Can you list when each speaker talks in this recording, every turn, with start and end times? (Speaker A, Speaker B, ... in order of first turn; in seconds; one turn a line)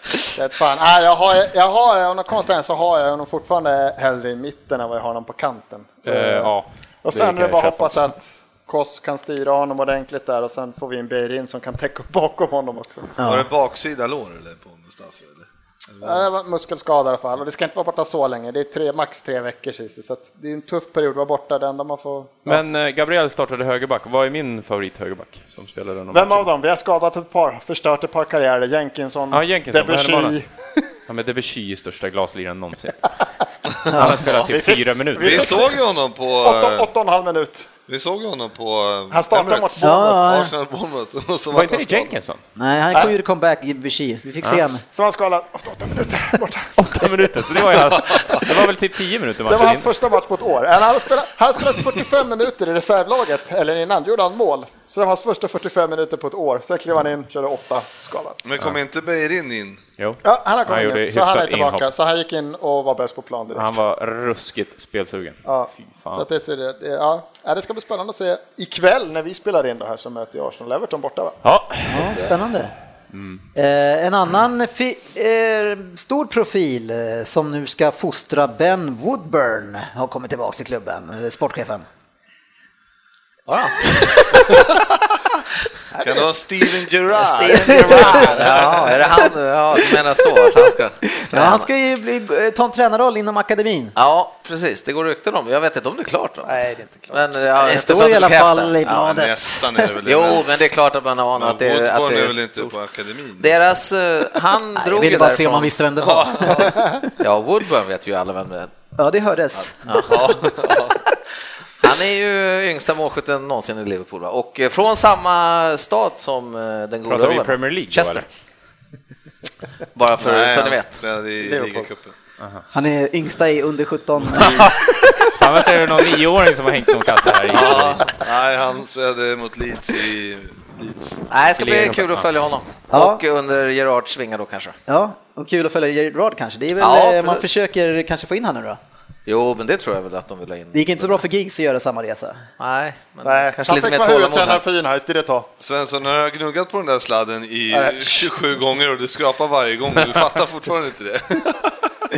Speaker A: 0.3-6.5
Speaker B: 6.0-8.1
Speaker A: 7.0-13.2
Speaker C: 13.2-13.5
Speaker D: 13.2-16.3
Speaker A: 16.0-22.6
Speaker B: 22.5-26.5
Speaker A: 26.1-30.5
Speaker B: 29.3-30.4
Speaker B: 31.1-33.1
Speaker B: 33.9-35.6
Speaker C: 33.9-34.2
Speaker A: 34.4-35.7
Speaker D: 35.2-36.9
Speaker A: 36.4-37.7
Speaker D: 37.9-42.2
Speaker A: 39.1-40.1
Speaker C: 39.8-40.5
Speaker B: 41.5-42.4
Speaker C: 42.6-44.8
Speaker A: 44.9-46.7
Speaker B: 46.8-49.9
Speaker D: 48.1-48.4
Speaker A: 49.5-58.4
Speaker D: 58.4-59.8
Speaker B: 60.0-61.9
Speaker A: 60.2-63.8
Speaker B: 63.5-66.3
Speaker A: 65.5-71.4
Speaker B: 71.4-72.2
Speaker C: 71.9-72.7
Speaker B: 73.1-73.4
Speaker C: 73.5-81.9
Speaker C: 83.8-84.7
Speaker A: 86.0-86.2
Speaker D: 86.0-89.0
Speaker C: 87.2-88.3
Speaker E: 87.6-91.7
Speaker A: 87.7-88.5
Speaker C: 90.2-94.0
Speaker E: 94.0-96.6
Speaker A: 96.4-97.2
Speaker E: 97.1-99.1
Speaker C: 97.6-99.9
Speaker D: 98.9-100.6
Speaker E: 100.0-102.5
Speaker D: 101.4-103.7
Speaker E: 103.4-105.7
Speaker C: 104.8-106.9
Speaker D: 106.0-106.9
Speaker E: 107.2-108.7
Speaker C: 109.0-110.2
Speaker E: 109.9-110.1
Speaker D: 110.0-111.0
Speaker E: 111.8-118.2
Speaker B: 117.1-118.2
Speaker E: 120.0-121.0
Speaker D: 120.2-122.1
Speaker A: 121.4-121.9
Speaker C: 122.7-125.0
Speaker B: 124.4-128.1
Speaker D: 127.5-131.2
Speaker E: 131.3-134.8
Speaker B: 131.6-132.3
Speaker C: 132.9-133.2
Speaker C: 134.9-138.8
Speaker E: 136.8-137.5
Speaker E: 139.3-141.2
Speaker C: 140.7-142.4
Speaker E: 142.6-144.6
Speaker A: 143.2-145.5
Speaker D: 145.6-151.9
Speaker A: 147.7-148.3